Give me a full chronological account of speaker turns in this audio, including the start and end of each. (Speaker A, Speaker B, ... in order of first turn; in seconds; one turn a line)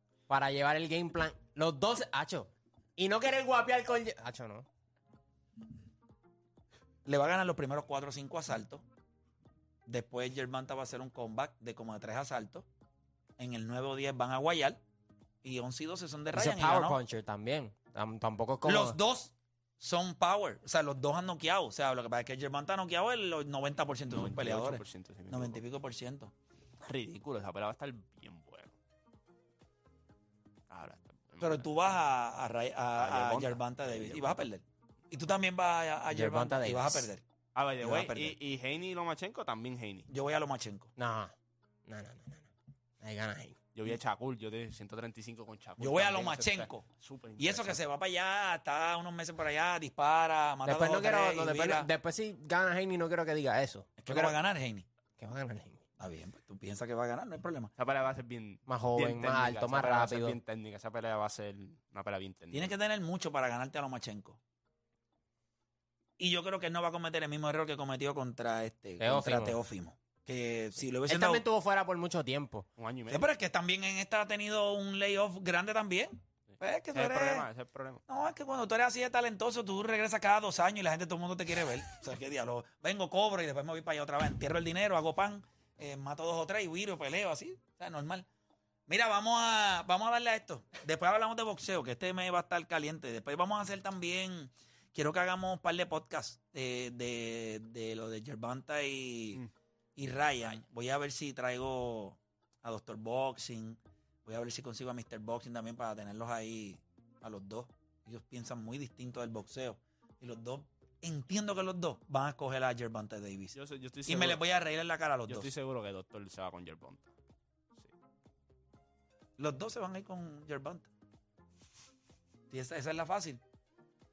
Speaker A: 0.3-4.7
Speaker B: 7.0-8.8
Speaker B: 9.9-12.7
Speaker B: 13.4-14.8
Speaker B: 15.4-17.0
Speaker A: 16.3-19.0
Speaker B: 18.6-26.3
Speaker C: 24.1-25.6
Speaker C: 26.8-28.7
Speaker C: 30.7-31.6
Speaker B: 31.4-37.2
Speaker C: 33.0-34.4
Speaker A: 36.1-37.1
Speaker C: 37.5-40.1
Speaker B: 37.8-38.3
Speaker B: 40.1-40.9
Speaker A: 41.0-41.3
Speaker A: 41.9-42.5
Speaker A: 43.0-43.6
Speaker C: 43.7-47.8
Speaker B: 45.8-51.9
Speaker A: 50.6-54.3
Speaker B: 54.0-54.8
Speaker A: 55.2-55.8
Speaker B: 56.0-57.7
Speaker C: 57.8-62.7
Speaker A: 58.7-60.4
Speaker B: 62.5-64.4
Speaker B: 66.2-71.4
Speaker A: 69.0-69.5
Speaker A: 71.1-72.7
Speaker C: 72.8-73.2
Speaker B: 73.1-77.5
Speaker C: 76.9-78.0
Speaker B: 78.1-88.2
Speaker B: 88.9-99.4
Speaker B: 100.0-115.5
Speaker C: 113.5-114.4
Speaker C: 115.3-117.1
Speaker B: 119.4-120.9
Speaker B: 122.5-123.4